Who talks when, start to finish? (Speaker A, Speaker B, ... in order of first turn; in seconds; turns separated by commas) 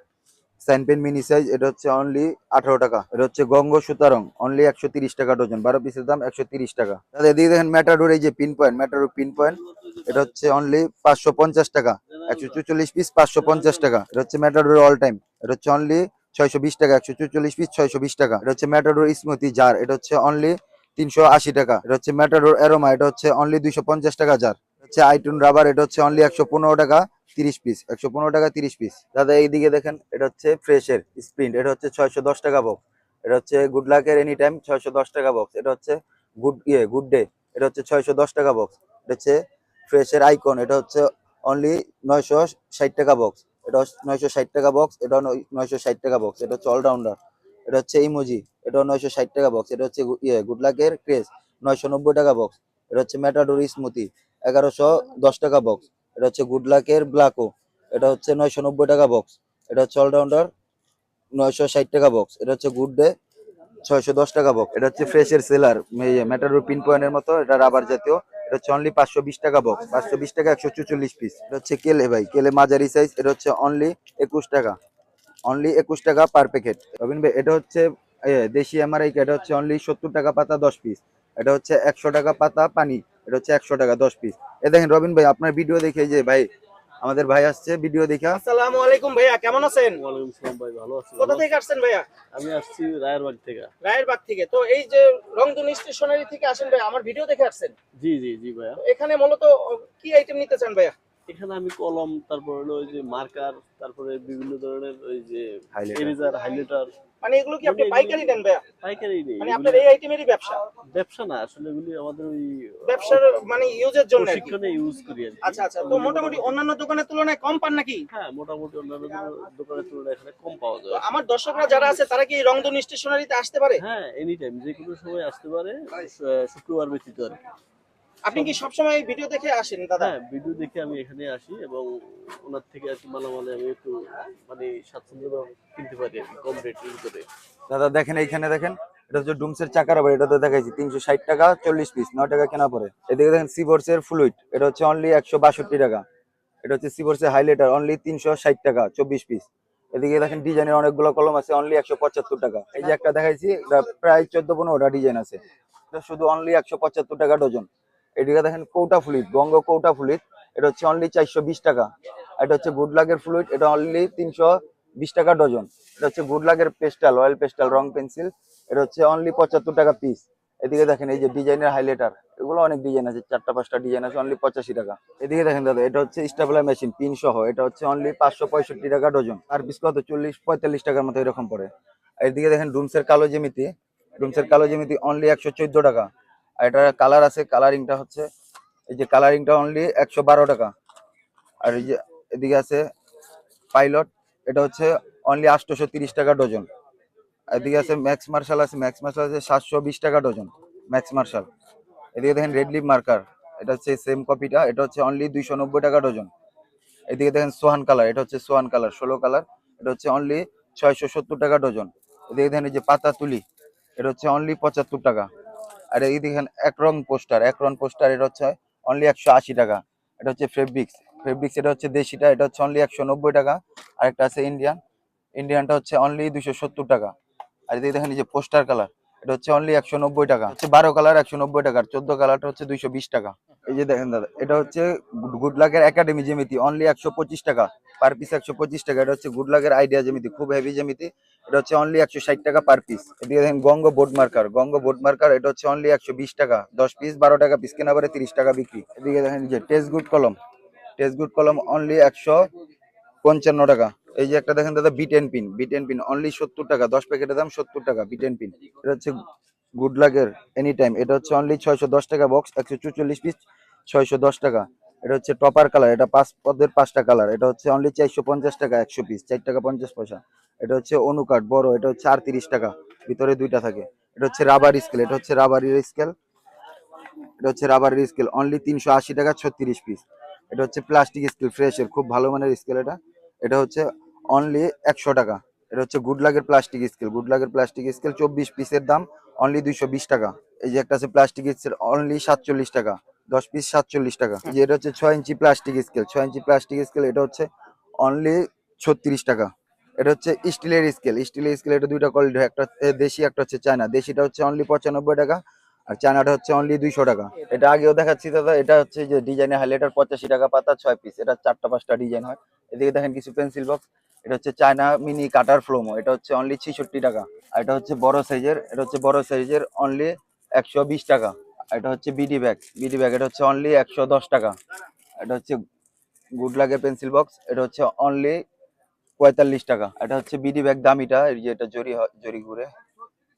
Speaker A: 0.6-60.5, Speaker A: 61.3-63.1, Speaker A: 63.8-74.8, Speaker A: 75.5-86.5, Speaker A: 87.0-88.4, Speaker B: 88.3-90.0, Speaker C: 89.9-91.6, Speaker B: 91.2-92.1, Speaker C: 92.3-93.7, Speaker B: 93.8-97.7, Speaker C: 98.0-98.8, Speaker B: 98.8-101.0, Speaker C: 101.3-106.9, Speaker A: 105.7-106.1, Speaker B: 107.2-108.7, Speaker C: 107.6-109.9, Speaker B: 109.4-110.6, Speaker C: 110.7-116.6, Speaker B: 112.9-114.6, Speaker B: 115.4-118.0, Speaker C: 118.1-121.1, Speaker B: 120.9-123.8, Speaker C: 123.8-127.4, Speaker B: 128.2-130.1, Speaker C: 128.3-128.6, Speaker C: 130.0-137.3, Speaker A: 137.7-146.0, Speaker A: 146.6-155.4, Speaker A: 155.9-181.7, Speaker A: 182.2-186.1, Speaker A: 186.6-188.3, Speaker A: 188.9-190.7, Speaker A: 191.6-192.9, Speaker A: 193.7-196.7, Speaker A: 197.5-201.5, Speaker A: 202.2-206.3, Speaker A: 207.1-213.4, Speaker A: 214.0-215.3, Speaker A: 215.9-224.8, Speaker A: 225.3-227.1, Speaker A: 227.7-250.4, Speaker A: 251.0-252.5, Speaker A: 253.2-259.2, Speaker A: 259.8-276.1, Speaker A: 277.4-297.5, Speaker A: 298.0-324.6, Speaker A: 325.2-325.6, Speaker A: 326.3-328.4, Speaker A: 329.2-332.7